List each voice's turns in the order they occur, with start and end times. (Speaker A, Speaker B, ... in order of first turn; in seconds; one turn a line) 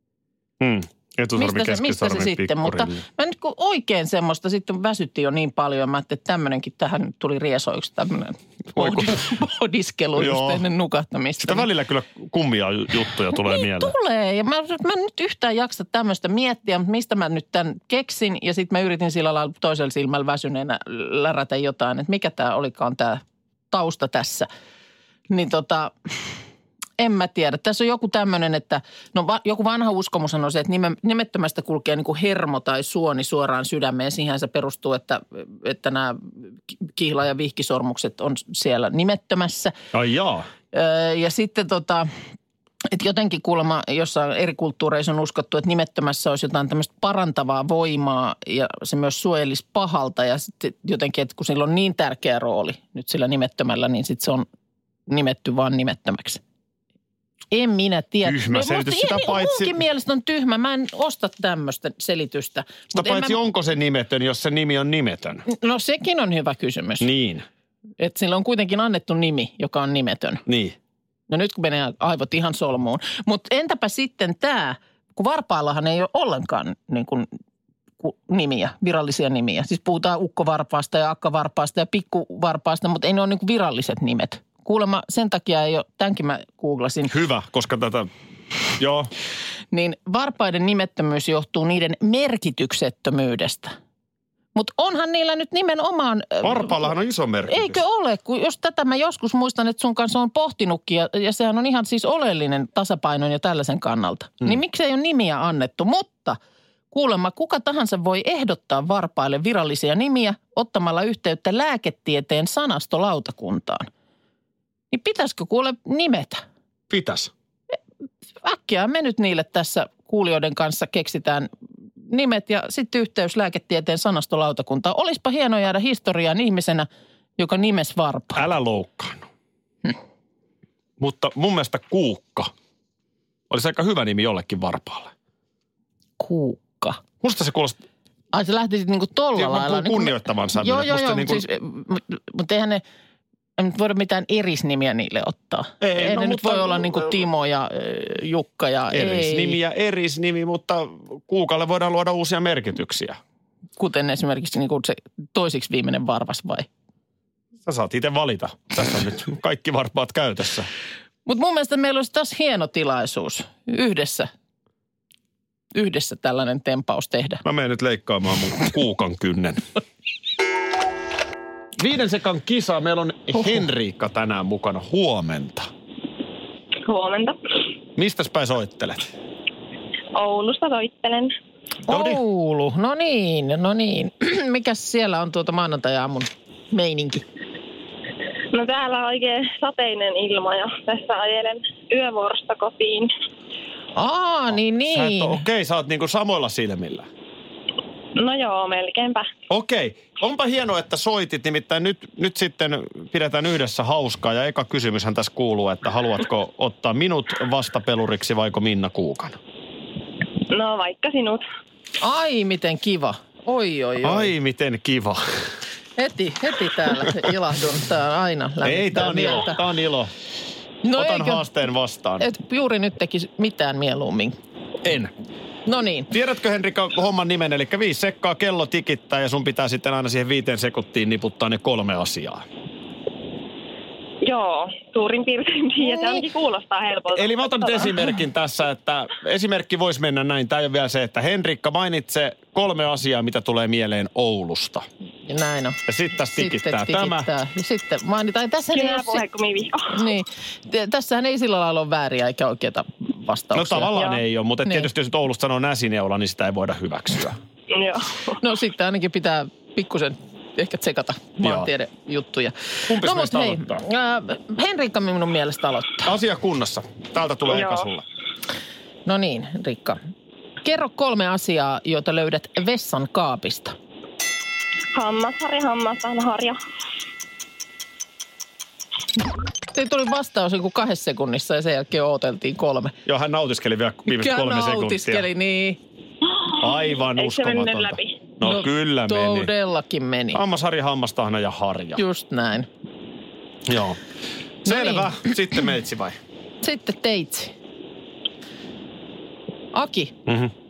Speaker A: 0.6-3.0
Speaker B: 1.4-11.7
Speaker A: 8.7-9.3
Speaker A: 10.2-10.6
Speaker A: 11.4-13.9
Speaker B: 13.3-24.5
Speaker B: 25.3-25.9
Speaker B: 27.0-39.7
Speaker A: 39.9-40.5
Speaker B: 40.7-42.1
Speaker B: 42.9-54.5
Speaker B: 55.1-56.4
Speaker B: 57.5-63.4
Speaker A: 58.2-59.8
Speaker A: 62.9-65.5
Speaker B: 65.5-67.1
Speaker A: 67.0-67.4
Speaker B: 68.0-70.4
Speaker A: 70.5-70.8
Speaker B: 71.3-77.3
Speaker B: 78.0-87.1
Speaker A: 87.1-88.1
Speaker A: 88.8-89.1
Speaker B: 89.7-93.7
Speaker B: 94.5-96.9
Speaker A: 96.4-97.8
Speaker B: 97.5-106.4
Speaker B: 106.9-113.9
Speaker B: 114.9-116.4
Speaker A: 116.9-117.3
Speaker B: 118.4-121.5
Speaker B: 122.1-128.4
Speaker A: 128.3-129.3
Speaker A: 131.0-132.5
Speaker A: 133.5-135.1
Speaker B: 136.2-137.0
Speaker A: 137.2-137.8
Speaker B: 138.3-142.8
Speaker A: 139.3-141.4
Speaker B: 143.6-149.6
Speaker A: 145.8-147.2
Speaker A: 148.9-153.2
Speaker B: 153.8-156.7
Speaker A: 157.7-160.7
Speaker B: 161.2-164.3
Speaker B: 165.7-167.4
Speaker A: 167.4-169.6
Speaker A: 171.8-175.7
Speaker C: 176.8-177.4
Speaker A: 177.9-179.1
Speaker C: 180.1-181.3
Speaker B: 181.9-187.2
Speaker A: 181.9-182.2
Speaker C: 188.5-193.1
Speaker B: 193.9-195.4
Speaker A: 194.5-197.1
Speaker C: 198.2-199.3
Speaker A: 199.5-209.4
Speaker C: 210.5-211.4
Speaker B: 212.0-214.3
Speaker A: 214.0-215.5
Speaker B: 216.0-219.6
Speaker A: 218.6-220.1
Speaker B: 220.8-221.4
Speaker A: 220.9-222.3
Speaker B: 222.2-224.3
Speaker A: 224.8-225.1
Speaker B: 225.7-226.1
Speaker A: 226.1-232.4
Speaker C: 234.2-237.9
Speaker B: 235.8-236.2
Speaker A: 237.1-244.8
Speaker B: 245.2-245.8
Speaker A: 245.9-247.3
Speaker B: 246.3-249.2
Speaker C: 248.7-249.9
Speaker B: 249.9-253.9
Speaker A: 253.5-257.4
Speaker C: 257.7-258.3
Speaker B: 258.4-266.1
Speaker A: 261.4-261.7
Speaker A: 262.9-263.8
Speaker A: 266.0-268.0
Speaker C: 267.5-267.9
Speaker B: 269.1-270.0
Speaker B: 270.6-273.7
Speaker C: 274.9-276.6
Speaker B: 279.7-282.9
Speaker A: 283.1-285.3
Speaker B: 284.1-285.8
Speaker C: 286.5-288.1
Speaker A: 286.6-289.5
Speaker B: 288.4-290.4
Speaker A: 290.3-292.0
Speaker B: 291.9-292.7
Speaker A: 293.6-294.0
Speaker A: 294.6-296.2
Speaker B: 294.6-295.3
Speaker B: 296.6-297.5
Speaker B: 299.7-300.1
Speaker A: 300.2-300.5